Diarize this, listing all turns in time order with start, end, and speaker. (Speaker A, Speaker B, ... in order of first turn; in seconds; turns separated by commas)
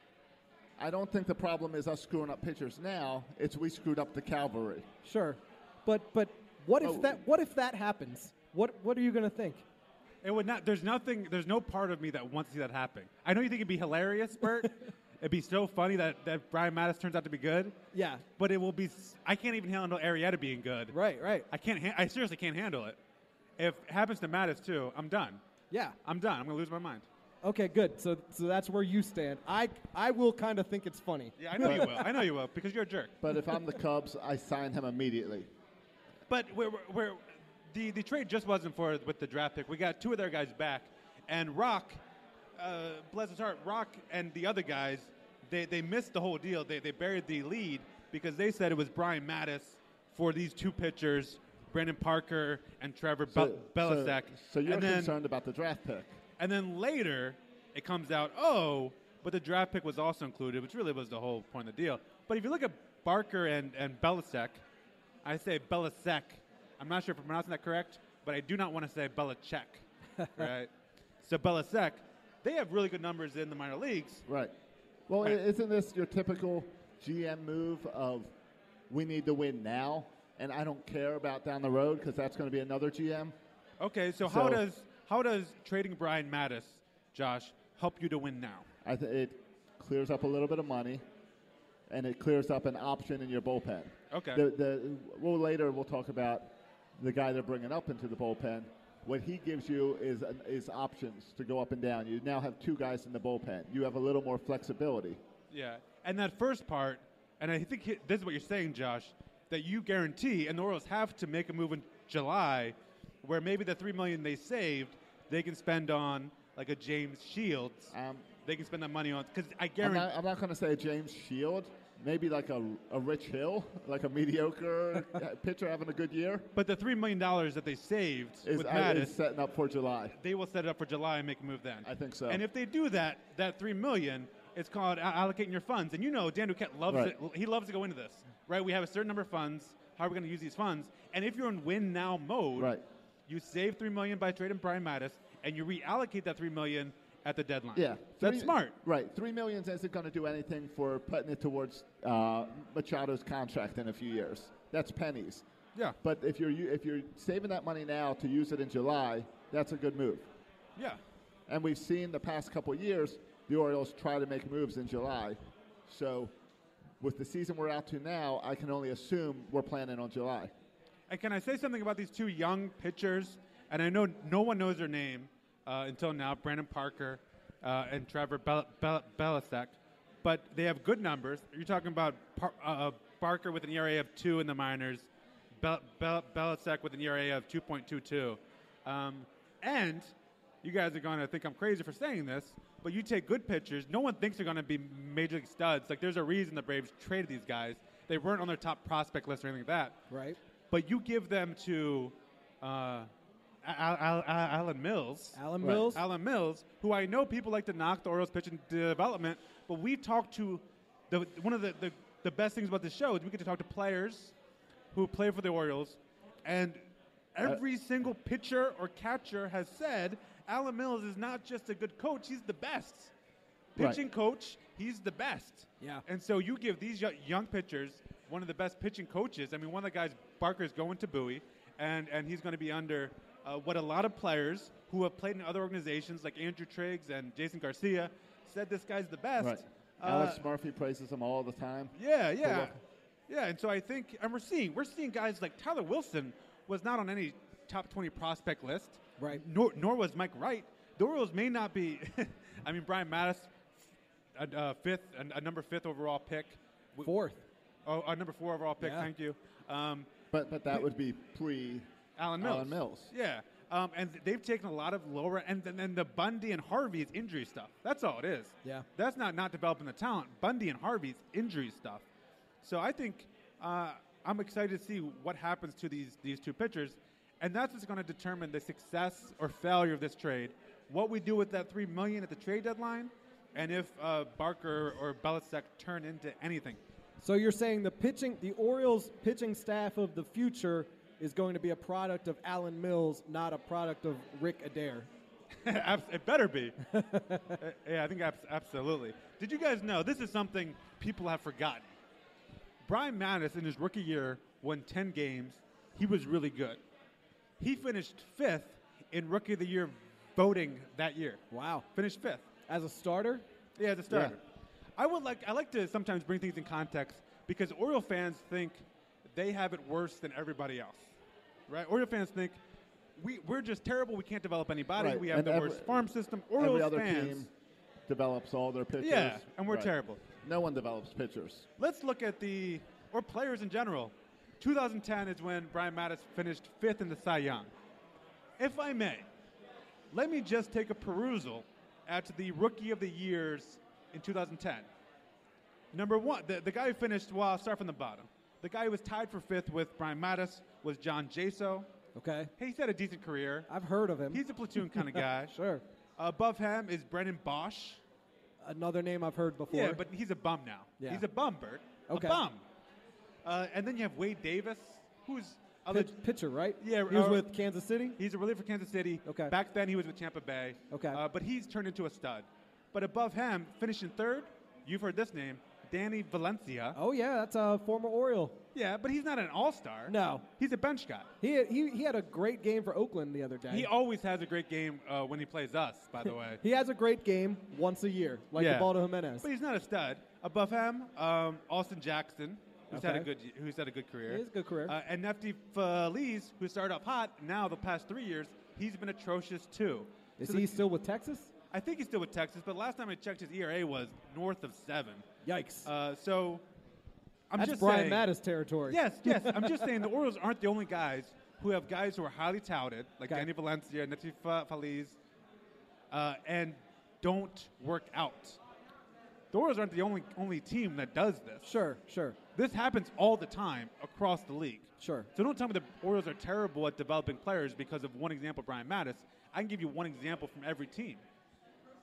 Speaker A: 0.8-4.9, Speaker B: 5.0-9.7, Speaker A: 6.8-7.2, Speaker C: 10.2-17.8, Speaker B: 17.9-18.2, Speaker C: 18.4-21.0, Speaker B: 20.9-21.5, Speaker C: 21.5-23.0, Speaker C: 23.6-25.4, Speaker B: 25.7-26.0, Speaker C: 26.1-27.1, Speaker B: 27.4-32.1, Speaker C: 31.4-33.2, Speaker A: 31.6-31.9, Speaker A: 33.2-35.5, Speaker C: 36.3-42.0, Speaker C: 42.6-55.1, Speaker A: 53.3-56.2, Speaker C: 56.4-64.6, Speaker C: 65.2-70.7, Speaker B: 70.2-70.5, Speaker C: 71.2-74.2, Speaker A: 74.3-74.5, Speaker A: 75.1-78.3, Speaker A: 78.9-83.3, Speaker C: 83.8-88.7, Speaker A: 84.2-84.6, Speaker A: 88.8-91.0, Speaker A: 91.9-105.2, Speaker C: 94.1-94.4, Speaker C: 105.5-117.9, Speaker A: 117.9-118.3, Speaker C: 118.5-120.1, Speaker A: 119.8-126.5, Speaker C: 126.5-129.2, Speaker A: 128.4-130.2, Speaker C: 130.2-142.7, Speaker A: 131.8-132.4, Speaker A: 136.9-137.2, Speaker A: 142.6-142.8, Speaker C: 143.3-148.8, Speaker A: 147.8-155.4, Speaker A: 156.0-160.3, Speaker A: 161.5-166.3, Speaker A: 167.0-170.5, Speaker C: 171.1-185.1, Speaker C: 185.6-200.0, Speaker B: 200.1-200.4, Speaker C: 200.7-203.1, Speaker C: 203.6-214.3, Speaker B: 205.3-206.0, Speaker A: 205.6-205.9, Speaker C: 214.9-216.8, Speaker C: 217.3-223.1, Speaker C: 223.8-240.4, Speaker A: 223.8-224.0, Speaker A: 239.4-242.8, Speaker C: 242.0-242.8, Speaker C: 243.3-253.8, Speaker C: 254.4-257.1, Speaker B: 257.0-257.4, Speaker C: 257.9-260.1, Speaker B: 258.8-259.1, Speaker A: 260.3-263.1, Speaker C: 262.2-272.0, Speaker C: 272.6-286.8, Speaker B: 287.2-295.1, Speaker C: 295.6-296.8, Speaker B: 296.9-297.6, Speaker C: 297.6-301.9, Speaker C: 302.9-306.8, Speaker C: 307.6-311.4, Speaker B: 311.5-311.9, Speaker C: 311.9-312.4, Speaker B: 312.7-313.4, Speaker C: 313.8-314.4, Speaker A: 314.1-314.4, Speaker C: 315.0-321.1, Speaker C: 321.7-322.6, Speaker C: 323.2-327.5, Speaker A: 325.0-327.5, Speaker A: 328.1-329.9, Speaker C: 329.0-330.2, Speaker A: 330.4-331.7, Speaker C: 331.8-337.7, Speaker C: 338.6-339.3, Speaker C: 340.1-344.9, Speaker C: 345.9-351.9, Speaker B: 352.1-352.5, Speaker C: 352.6-353.7, Speaker B: 353.7-355.8, Speaker C: 354.3-355.6, Speaker C: 356.2-358.0, Speaker B: 358.6-360.0, Speaker C: 359.7-362.6, Speaker B: 362.1-362.4, Speaker C: 363.4-366.1, Speaker B: 365.9-368.2, Speaker C: 366.8-367.5, Speaker C: 368.2-377.0, Speaker B: 369.3-369.5, Speaker B: 370.9-371.2, Speaker B: 376.9-378.6, Speaker C: 378.7-381.3, Speaker B: 380.1-380.4, Speaker B: 381.4-383.9, Speaker C: 383.7-386.6, Speaker B: 386.6-389.5, Speaker C: 388.6-400.8, Speaker B: 392.9-393.3, Speaker B: 394.3-394.9, Speaker B: 400.4-401.5, Speaker C: 401.7-405.3, Speaker B: 405.4-405.9, Speaker C: 405.9-406.6, Speaker C: 407.5-408.3, Speaker B: 407.6-410.0, Speaker C: 408.9-415.2, Speaker C: 416.1-418.6, Speaker C: 419.5-421.7, Speaker B: 421.6-422.4, Speaker C: 422.6-431.2, Speaker B: 425.0-425.3